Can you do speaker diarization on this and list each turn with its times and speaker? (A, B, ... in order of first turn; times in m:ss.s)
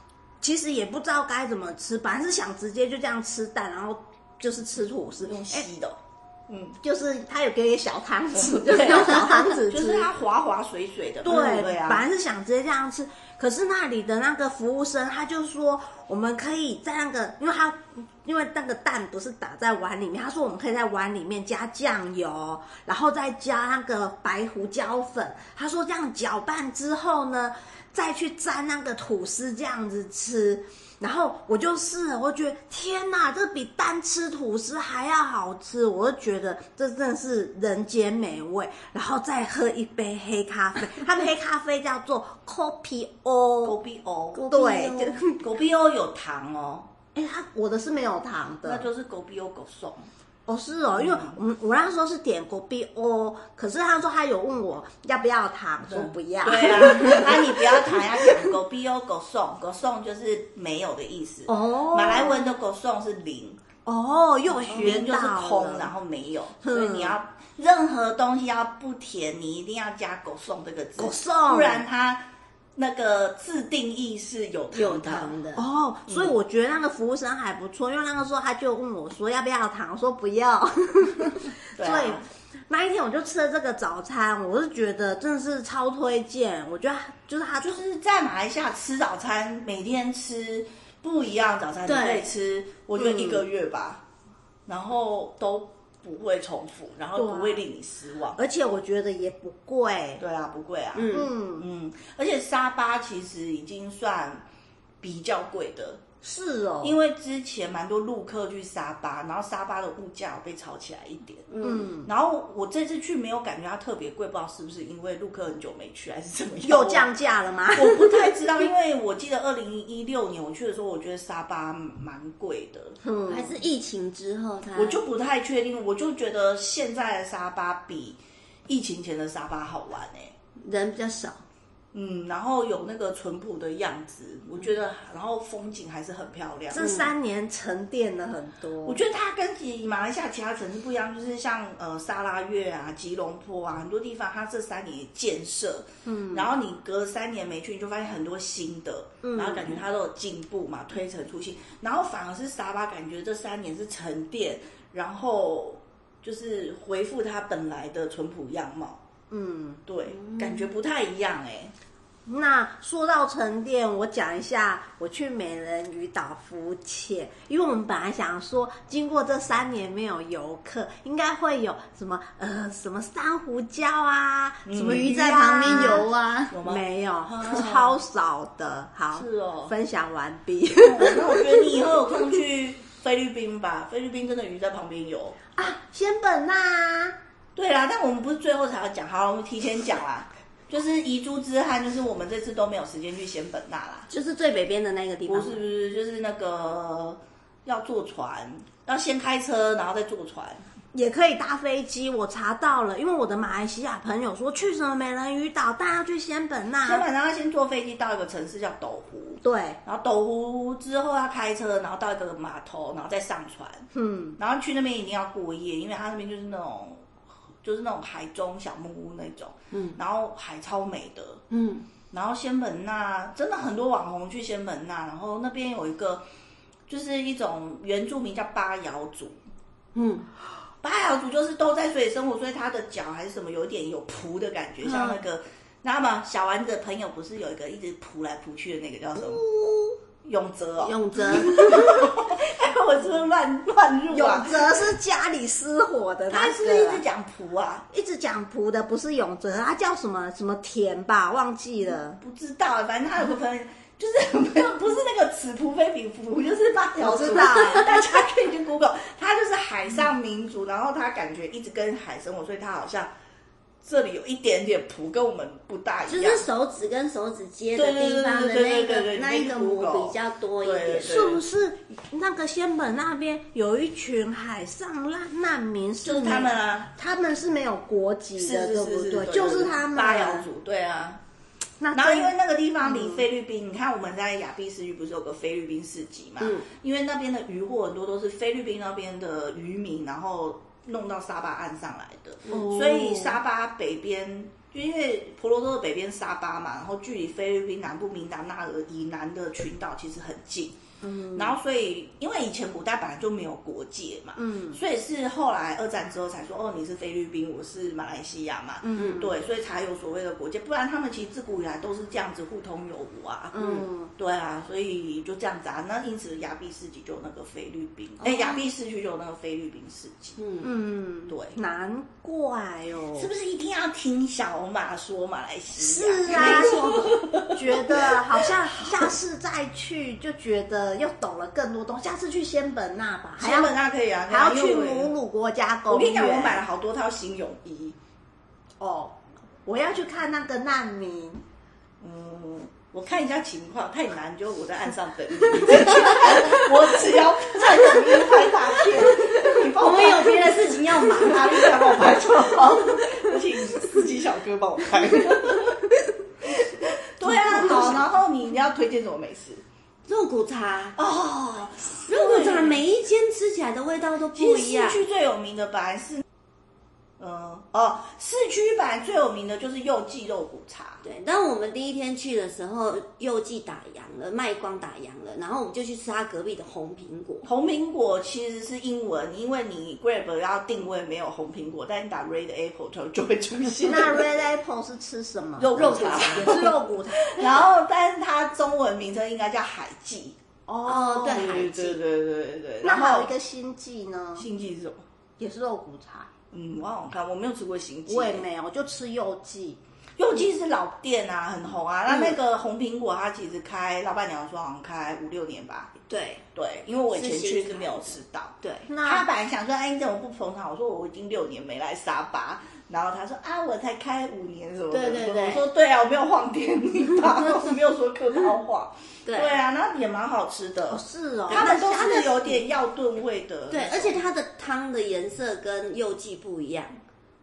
0:00.4-0:05.7 A
0:05.2-0:06.8 B
0:06.8-0:10.1 A
0:08.3-0:12.0 B
0:11.2-0:43.8 A
0:43.6-0:44.5 B
0:44.3-0:45.2 C
0:44.5-0:45.4 A
0:45.4-0:46.9 B
0:47.1-0:48.8 A
0:48.6-0:50.1 B
0:50.5-0:58.5 A
0:50.9-0:51.4 B
0:55.8-1:03.6 B
1:01.5-1:02.4 A
1:03.8-1:05.9 A
1:04.5-1:12.2 B
1:06.6-1:07.2 A
1:11.0-1:11.8 A
1:12.8-1:15.3 B
1:14.7-1:15.6 C
1:15.5-1:27.8 A
1:16.1-1:16.3 B
1:21.8-1:22.2 B
1:27.6-1:34.0 B
1:31.8-1:32.3 C
1:33.0-1:33.4 A
1:34.6-1:38.4 B
1:37.1-1:37.6 A
1:38.4-1:40.2 A
1:40.2-1:44.4 B
1:40.9-1:41.3 C
1:41.1-1:41.6 A
1:45.0-1:46.0 B
1:46.2-1:47.0 A
1:46.8-1:51.5 B
1:51.5-1:51.9 C
1:51.6-1:52.1 A
1:52.0-1:57.1 B
1:56.6-1:58.4 A
1:57.7-2:03.0 B
2:03.0-2:03.6 A
2:03.3-2:05.0 C
2:04.8-2:10.3 B
2:10.6-2:11.4 C
2:11.9-2:16.8 B
2:16.7-2:19.0 A
2:16.8-2:17.1 C
2:18.8-2:39.0 B
2:26.0-2:26.5 A
2:29.2-2:29.8 A
2:39.3-2:39.8 A
2:39.9-2:41.7 B
2:40.1-2:40.7 C
2:42.2-3:01.8 A
2:54.6-2:58.0 B
2:55.6-2:56.5 C
2:59.1-2:59.7 B
3:00.8-3:05.4 B
3:05.6-3:07.2 A
3:07.6-3:14.1 B
3:14.1-3:15.6 C
3:15.2-3:20.6 B
3:20.9-3:27.0 A
3:26.8-3:37.1 B
3:29.4-3:29.8 A
3:33.9-3:34.4 A
3:37.6-3:41.4 B
3:39.7-3:40.0 C
3:41.5-3:41.8 C
3:42.1-3:46.2 B
3:46.9-3:49.4 B
3:49.9-3:50.3 C
3:50.8-3:59.4 B
3:54.8-3:55.2 C
3:59.2-4:00.0 C
4:00.2-4:04.8 B
4:00.8-4:02.1 C
4:01.4-4:01.8 A
4:04.1-4:07.0 A
4:06.3-4:07.8 B
4:07.9-4:12.2 A
4:12.2-4:23.1 B
4:17.0-4:18.1 A
4:23.8-4:26.5 B
4:26.1-4:31.3 C
4:27.7-4:31.4 B
4:31.0-4:40.4 A
4:36.0-4:36.9 B
4:38.4-4:41.2 B
4:41.8-4:43.2 A
4:41.9-5:00.8 B
4:46.4-4:46.7 C
4:52.5-4:53.4 A
5:01.0-5:01.6 A
5:01.3-5:13.6 B
5:04.4-5:04.8 A
5:08.8-5:09.3 A
5:09.0-5:09.3 C
5:13.5-5:14.1 A
5:13.6-5:13.8 C
5:14.2-5:20.4 B
5:18.2-5:18.6 C
5:20.4-5:20.7 C
5:20.6-5:23.3 A
5:21.3-5:21.6 B
5:23.1-5:29.1 B
5:25.7-5:33.7 A
5:26.3-5:26.8 C
5:33.4-5:35.1 B
5:34.3-5:36.6 A
5:35.9-5:38.0 B
5:38.8-5:41.4 A
5:42.0-5:55.9 B
5:49.5-5:52.3 C
5:56.4-5:59.6 B
5:57.2-5:58.0 A
5:57.5-5:58.0 C
6:00.0-6:01.0 C
6:01.0-6:02.8 B
6:02.0-6:05.0 C
6:04.3-6:06.2 B
6:07.2-6:11.0 B
6:11.0-6:17.5 C
6:17.4-6:24.3 B
6:23.8-6:27.5 A
6:25.6-6:30.4 B
6:25.7-6:26.7 C
6:30.7-6:31.6 A
6:30.8-6:32.0 C
6:31.2-6:33.3 B
6:32.8-6:34.4 A
6:34.4-6:35.0 B
6:35.4-6:36.3 A
6:36.5-6:38.4 B
6:38.1-6:39.8 A
6:40.2-6:45.9 B
6:46.1-6:46.4 C
6:46.5-7:04.2 B
6:47.1-6:48.9 C
6:48.9-6:49.3 A
6:54.9-6:55.6 C
6:59.2-6:59.6 C
7:00.9-7:02.6 A
7:03.7-7:07.0 C